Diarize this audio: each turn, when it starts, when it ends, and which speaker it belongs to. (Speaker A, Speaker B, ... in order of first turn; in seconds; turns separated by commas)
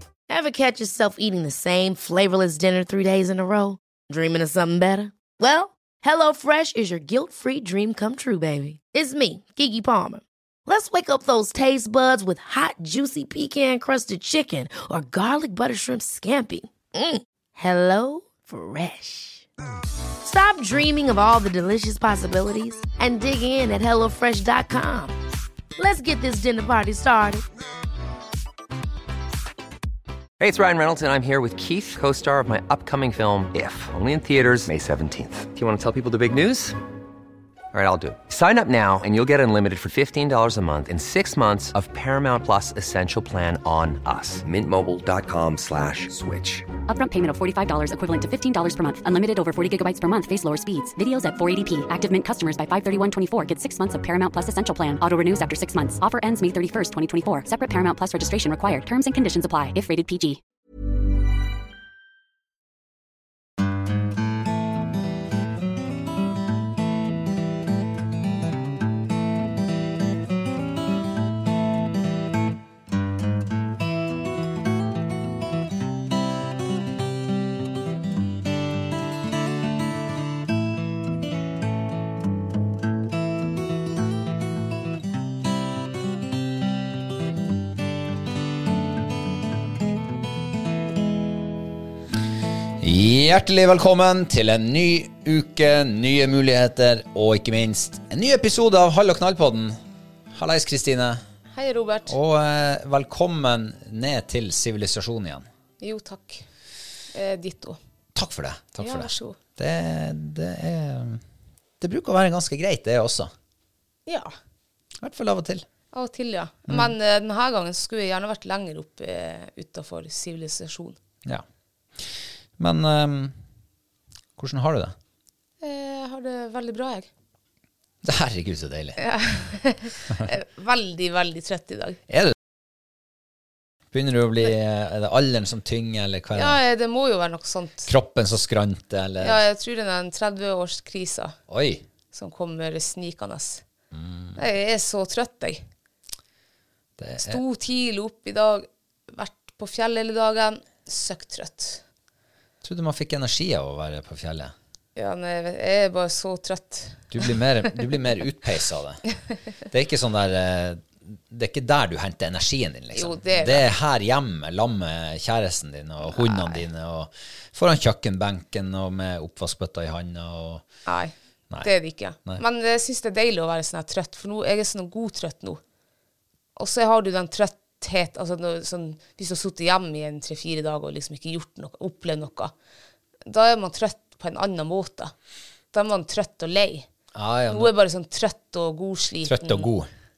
Speaker A: 0.3-19.5, Speaker A: 20.2-25.1, Speaker A: 25.8-27.4, Speaker B: 30.4-36.8, Speaker B: 37.7-46.7, Speaker C: 46.9-60.4, Speaker D: 92.8-99.8, Speaker D: 100.3-101.2, Speaker E: 101.5-102.1, Speaker D: 102.1-105.5, Speaker E: 105.8-106.5, Speaker E: 107.1-107.8, Speaker D: 108.2-111.2, Speaker E: 108.8-109.4, Speaker D: 111.8-113.3, Speaker E: 114.1-114.3, Speaker D: 115.0-115.7, Speaker E: 115.9-121.0, Speaker D: 116.7-117.0, Speaker D: 122.0-123.4, Speaker D: 124.4-125.0, Speaker E: 125.6-127.1, Speaker D: 128.0-129.0, Speaker E: 129.0-132.0, Speaker D: 132.1-132.4, Speaker D: 133.9-136.6, Speaker E: 136.3-137.9, Speaker D: 137.9-139.4, Speaker E: 139.2-141.3, Speaker D: 141.5-141.8, Speaker E: 142.1-143.6, Speaker D: 143.9-144.4, Speaker E: 144.4-145.7, Speaker D: 147.0-147.4, Speaker E: 147.2-151.8, Speaker D: 152.6-154.5, Speaker E: 155.0-157.3, Speaker D: 157.1-159.0, Speaker D: 159.7-170.7, Speaker E: 162.9-163.7, Speaker E: 166.1-166.6, Speaker E: 170.9-175.6, Speaker E: 176.6-182.5, Speaker E: 183.3-185.1, Speaker E: 185.7-186.9, Speaker D: 187.1-187.7, Speaker E: 187.5-189.7, Speaker D: 189.2-189.9